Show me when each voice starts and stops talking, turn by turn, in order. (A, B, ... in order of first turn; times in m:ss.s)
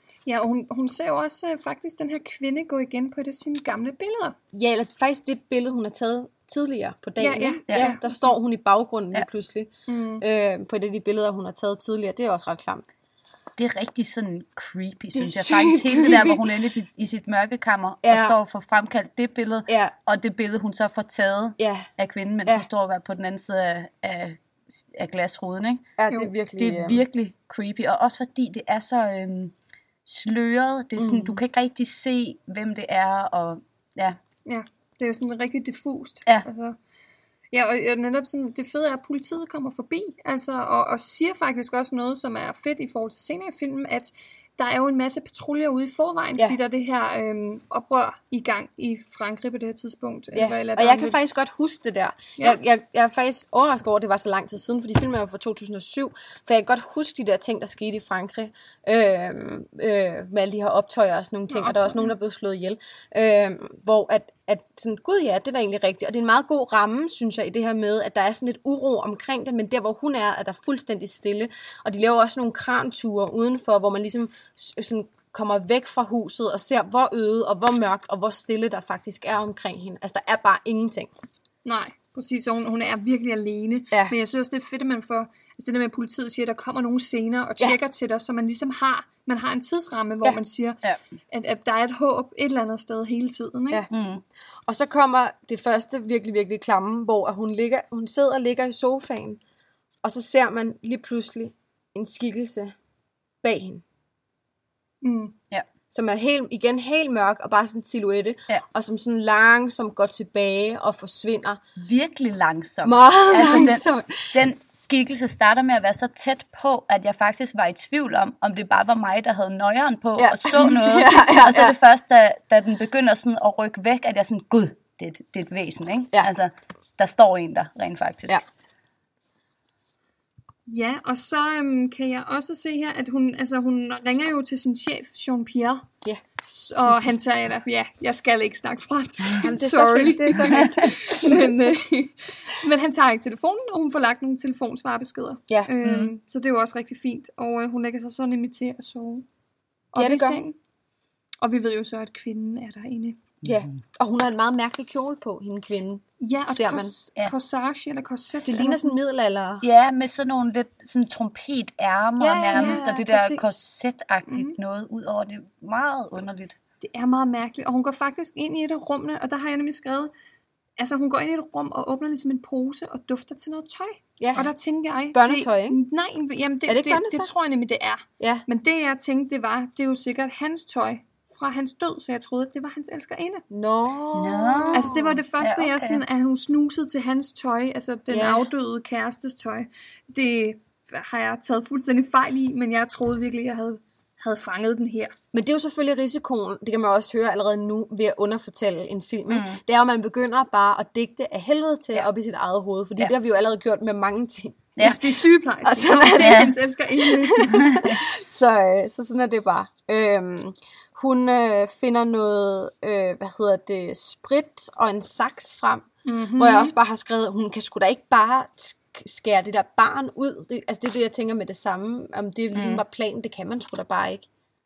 0:00.3-0:04.4 A
0:04.5-0:12.8 B
0:07.2-0:08.3 A
0:07.7-0:07.9 C
0:09.9-0:10.2 A
0:13.6-0:25.9 C
0:15.2-0:16.4 B
0:18.0-0:18.4 B
0:19.7-0:19.9 B
0:21.6-0:21.9 B
0:26.0-0:27.0 B
0:26.6-0:29.5 C
0:30.0-0:34.2 C
0:31.0-0:31.4 B
0:34.5-0:36.8 A
0:37.5-0:51.2 A
0:50.3-1:21.1 B
1:01.5-1:02.1 A
1:21.6-1:30.8 A
1:31.3-1:33.8 A
1:33.9-1:34.2 C
1:34.7-1:39.4 B
1:40.0-1:42.8 B
1:43.4-1:43.8 B
1:45.0-1:45.4 A
1:45.9-1:51.6 B
1:51.8-2:08.4 C
1:52.8-1:54.3 B
2:00.2-2:01.8 B
2:10.7-2:15.9 A
2:16.4-2:29.3 A
2:19.4-2:20.7 B
2:25.8-2:26.1 C
2:29.9-2:30.6 A
2:30.0-2:30.4 B
2:31.4-2:33.2 A
2:33.4-2:37.0 B
2:36.2-2:39.0 A
2:38.5-2:39.6 B
2:39.6-2:46.6 C
2:42.2-2:43.5 A
2:42.5-2:42.8 B
2:44.3-2:44.6 A
2:46.8-2:50.1 A
2:50.8-3:03.4 A
2:54.2-2:54.4 B
2:55.1-2:55.8 B
2:56.7-2:57.3 B
2:58.2-2:58.4 B
3:03.5-3:05.2 B
3:04.1-3:06.0 C
3:04.7-3:15.1 A
3:08.1-3:08.5 B
3:15.3-3:25.0 B
3:19.3-3:19.6 C
3:24.8-3:27.7 A
3:25.6-3:44.3 B
3:26.2-3:26.5 C
3:27.5-3:28.0 C
3:36.0-3:36.8 A
3:42.5-3:42.8 C